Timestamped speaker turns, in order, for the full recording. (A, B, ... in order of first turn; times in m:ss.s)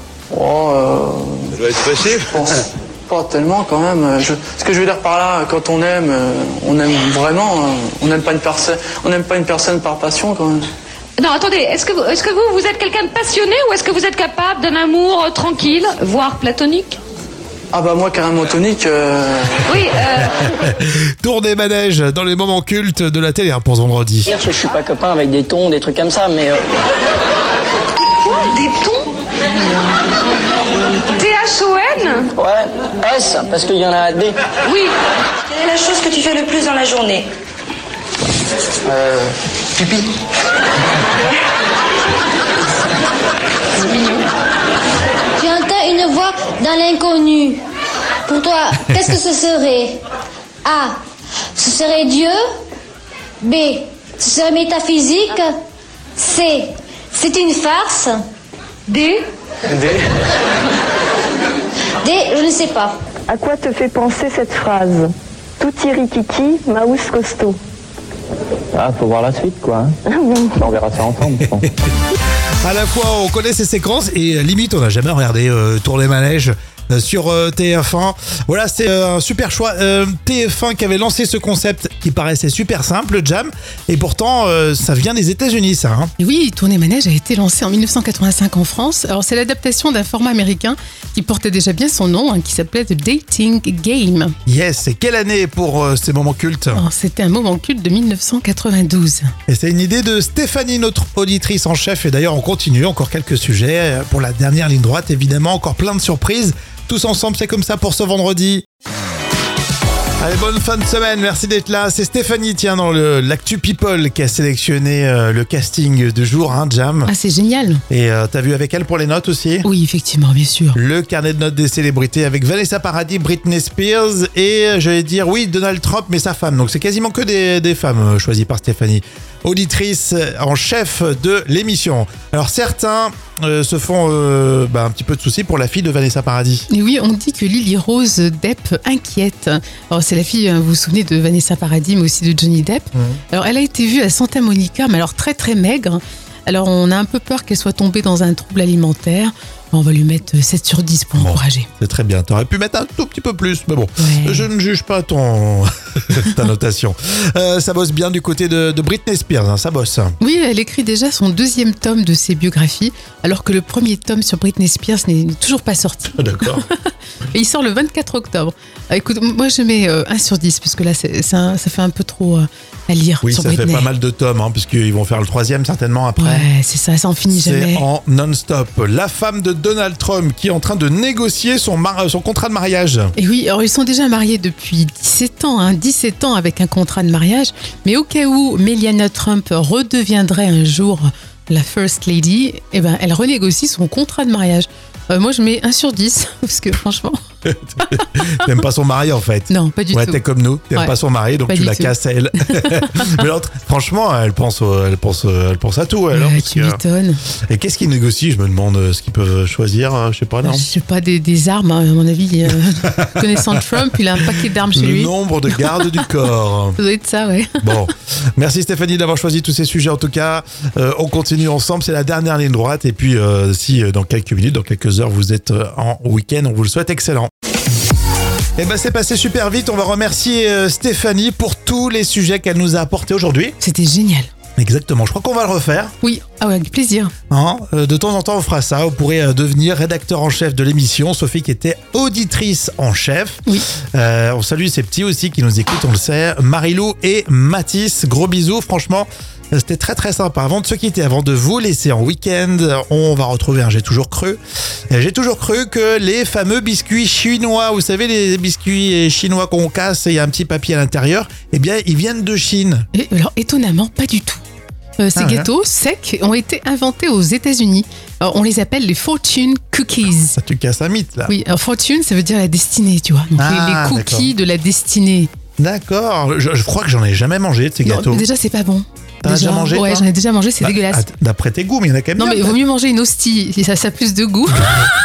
0:00.3-0:10.7 A
0:11.2-0:17.0 B
0:17.7-0:19.7 A
0:19.7-0:20.4 B
0:20.6-0:24.3 C
0:24.3-0:26.6 D
0:28.5-0:29.0 E
0:31.1-0:32.3 B
0:32.3-0:34.3 D
0:35.5-0:37.3 E
0:45.4-0:47.6 F
0:48.2-0:50.0 F
0:50.6-0:51.0 F
0:51.5-0:52.4 F
0:53.4-0:55.5 F
0:56.2-0:58.2 F
0:58.9-0:59.2 B
1:02.0-1:03.0 F
1:03.3-1:07.6 G
1:08.7-1:10.0 H
1:10.1-1:10.6 G
1:10.6-1:11.6 H
1:11.6-1:26.1 C
1:26.2-1:34.3 I
1:34.4-1:36.8 C
1:36.7-1:39.3 I
1:39.5-1:48.6 C
1:50.2-1:57.1 C
1:57.0-1:57.8 I
1:57.9-1:59.6 C
1:59.6-2:00.8 I
2:00.7-2:16.7 C
2:16.7-2:31.7 I
2:31.2-2:40.2 C
2:34.0-2:34.5 I
2:40.2-2:46.8 I
2:46.2-2:46.6 C
2:47.3-2:53.9 I
2:53.2-2:56.5 C
2:56.2-2:57.8 I
2:57.3-3:03.1 C
3:03.2-3:17.2 I
3:17.4-3:30.6 C
3:19.5-3:20.2 I
3:21.5-3:23.1 I
3:26.1-3:27.2 I
3:30.4-3:35.9 I
3:32.9-3:33.6 C
3:34.7-3:36.8 C
3:36.8-3:37.8 I
3:37.6-3:47.3 C
3:48.6-3:53.5 C
3:53.6-3:54.3 I
3:54.6-3:55.9 C
3:56.0-3:57.1 I
3:57.3-4:22.9 C
4:22.9-4:24.4 I
4:25.0-4:30.4 I
4:25.2-4:25.5 C
4:30.4-4:31.3 C
4:31.3-4:35.3 I
4:33.4-4:34.3 C
4:35.6-4:38.2 C
4:37.8-4:41.0 I
4:39.2-4:40.1 C
4:40.6-4:42.6 C
4:42.2-4:44.8 I